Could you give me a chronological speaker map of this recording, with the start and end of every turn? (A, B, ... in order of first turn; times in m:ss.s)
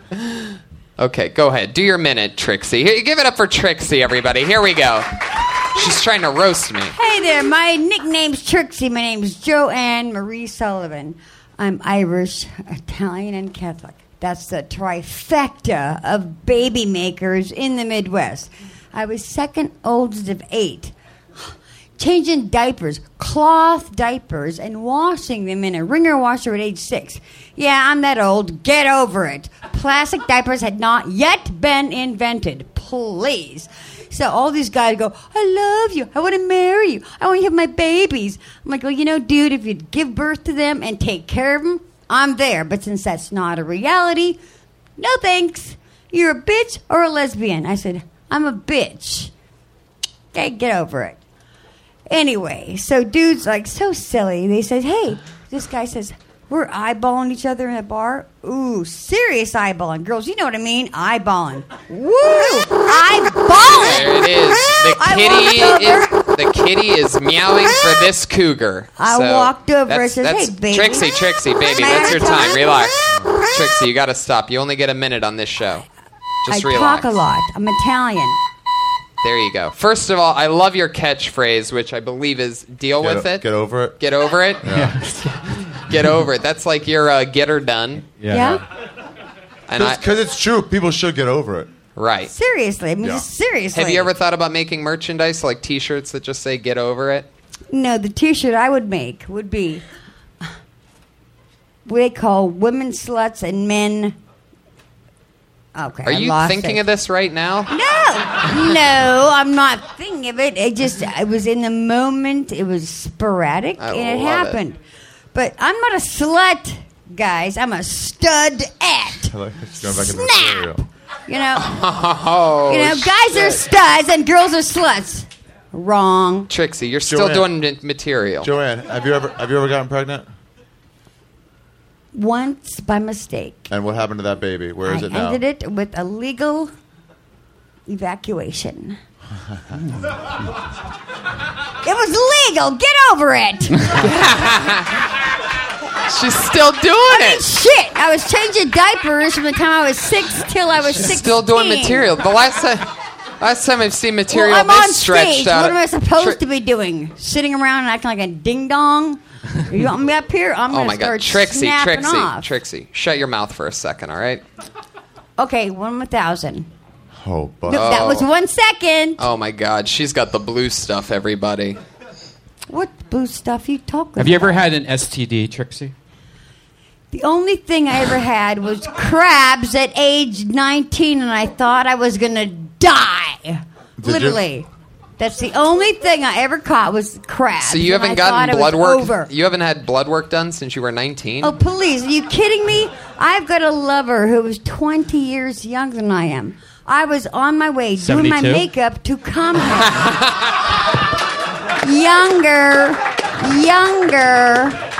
0:00.1-0:05.1 A
0:05.7-0:06.9 A
0:06.9-0:21.4 B
0:22.0-0:44.4 B
0:45.0-0:49.3 B
0:50.3-0:51.2 B
0:52.1-1:06.2 B
1:03.6-1:15.8 A
1:09.0-1:13.0 B
1:16.4-1:17.2 A
1:16.5-1:18.4 B
1:19.2-1:23.5 A
1:23.0-1:24.0 C
1:24.0-1:24.6 A
1:24.6-1:24.9 C
1:24.6-1:25.6 D
1:25.7-1:28.1 A
1:28.2-1:28.6 D
1:28.3-1:28.6 B
1:29.7-1:30.0 A
1:29.7-1:31.7 C
1:32.0-1:32.3 A
1:32.3-1:34.1 B
1:33.7-1:37.3 A
1:37.7-1:39.8 B
1:41.8-1:44.2 B
1:45.7-1:46.8 B
1:46.0-1:47.7 A
1:47.7-1:54.8 B
1:53.8-1:54.6 A
1:55.3-2:01.7 B
1:59.3-2:00.8 C
2:01.5-2:03.6 A
2:02.7-2:06.5 B
2:06.5-2:08.5 A
2:07.0-2:07.5 C
2:08.4-2:10.3 C
2:12.1-2:13.7 B
2:13.7-2:15.4 C
2:14.8-2:16.7 B
2:17.9-2:19.0 B
2:21.8-2:23.9 B
2:24.0-2:25.1 A
2:26.0-2:27.4 A
2:27.1-2:32.1 B
2:30.9-2:36.4 A
2:34.3-2:42.4 B
2:40.7-2:44.4 A
2:45.4-2:46.7 B
2:47.1-2:47.9 C
2:47.7-2:49.2 B
2:47.7-2:48.3 A
2:49.2-2:51.8 A
2:52.7-2:54.6 B
2:54.2-2:55.9 D
2:57.1-3:04.7 B
3:04.0-3:04.4 C
3:05.2-3:09.3 B
3:07.6-3:11.5 A
3:11.4-3:20.0 B
3:18.0-3:18.6 D
3:20.0-3:20.4 A
3:21.8-3:24.8 B